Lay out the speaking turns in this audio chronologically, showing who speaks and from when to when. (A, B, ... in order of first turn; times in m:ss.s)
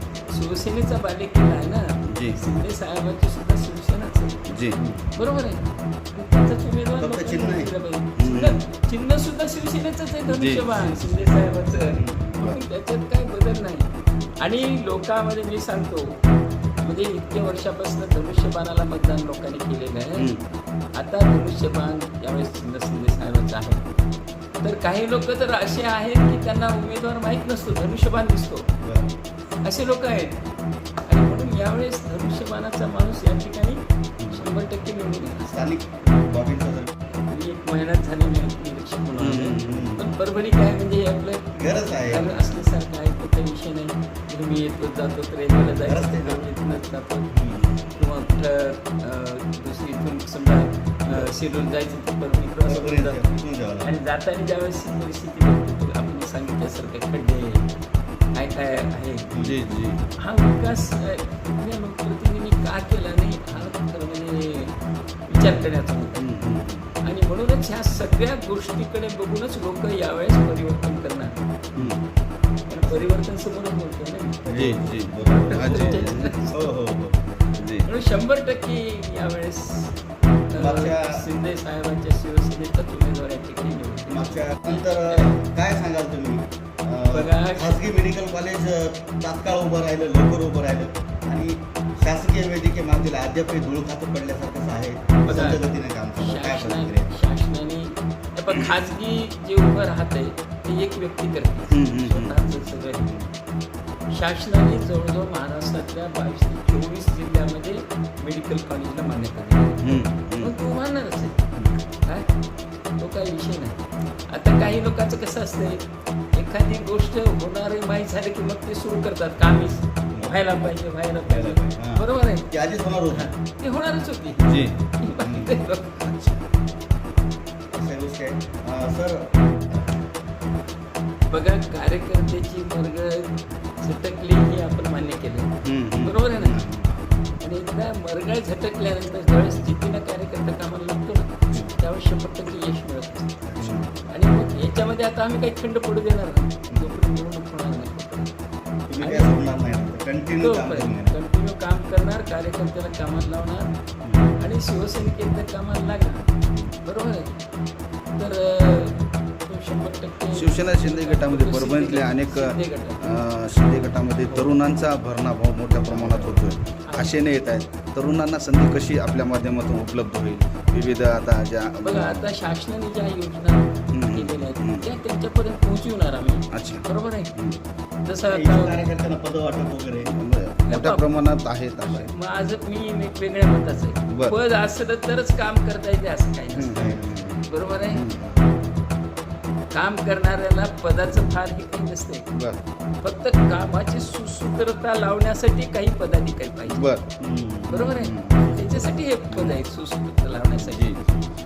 0:00.3-0:04.5 A
0:02.1-0:02.4 B
0:04.5-0:04.8 B
0:04.8-0:05.3 C
0:05.2-0:16.2 A
0:07.0-0:07.7 C
0:08.2-0:08.6 B
0:10.3-0:11.3 B
0:11.9-0:12.2 C
0:12.1-0:12.6 B
0:16.8-0:20.3 A
0:20.2-0:20.4 B
0:20.9-0:23.8 A
0:24.6-0:28.6 A
0:28.8-0:29.1 C
0:29.6-0:30.4 A
0:31.0-0:35.7 A
0:35.5-0:36.9 C
0:37.1-0:47.3 A
0:39.1-0:40.0 B
0:39.6-0:40.1 C
0:41.5-0:42.4 C
0:42.1-0:42.6 B
0:45.8-0:46.4 C
0:47.3-0:47.7 C
0:47.9-0:53.3 A
0:52.6-0:54.0 C
0:53.8-0:57.6 A
0:58.3-0:59.3 A
0:59.3-0:59.6 C
0:59.4-1:00.0 B
1:00.2-1:06.3 A
1:06.2-1:07.0 B
1:07.0-1:11.3 A
1:11.8-1:12.0 B
1:12.7-1:14.4 A
1:12.8-1:13.2 C
1:14.4-1:17.5 C
1:14.5-1:16.4 B
1:15.2-1:16.7 A
1:17.6-1:17.8 B
1:17.8-1:20.0 A
1:20.5-1:25.3 A
1:20.6-1:21.3 C
1:24.1-1:37.1 C
1:27.1-1:27.9 A
1:35.2-1:35.6 A
1:36.2-1:43.2 A
1:41.7-1:42.6 B
1:44.1-1:51.4 A
1:49.8-1:50.5 B
1:52.0-1:52.3 A
1:53.0-2:02.5 A
2:01.2-2:03.3 C
2:03.1-2:06.0 A
2:04.4-2:04.8 B
2:05.2-2:05.6 C
2:06.0-2:06.4 B
2:07.7-2:10.0 C
2:11.3-2:16.6 A
2:15.6-2:16.3 B
2:16.3-2:17.2 C
2:17.4-2:23.4 A
2:23.4-2:23.9 C
2:23.6-2:23.8 B
2:24.1-2:28.3 A
2:26.7-2:26.9 C
2:28.9-2:31.2 C
2:29.0-2:29.3 A
2:30.4-2:33.7 A
2:34.0-2:34.3 C
2:34.4-2:36.3 A
2:36.8-2:37.4 A
2:38.2-2:43.0 A
2:40.3-2:52.3 B
2:44.3-2:44.6 C
2:45.9-2:46.5 C
2:46.8-2:47.2 A
2:51.8-2:57.3 A
2:53.9-2:54.9 B
2:56.5-2:57.6 B
2:58.0-2:58.8 A
2:58.3-3:00.1 C
3:00.0-3:02.1 B
3:00.7-3:01.2 A
3:01.8-3:06.9 A
3:04.1-3:04.4 B
3:06.5-3:08.4 B
3:06.7-3:07.2 C
3:07.4-3:08.0 A
3:09.7-3:12.3 A
3:12.3-3:12.6 B
3:13.0-3:16.9 A
3:16.6-3:17.2 B
3:17.2-3:19.0 C
3:17.7-3:20.9 A
3:17.7-3:18.4 B
3:20.6-3:21.0 B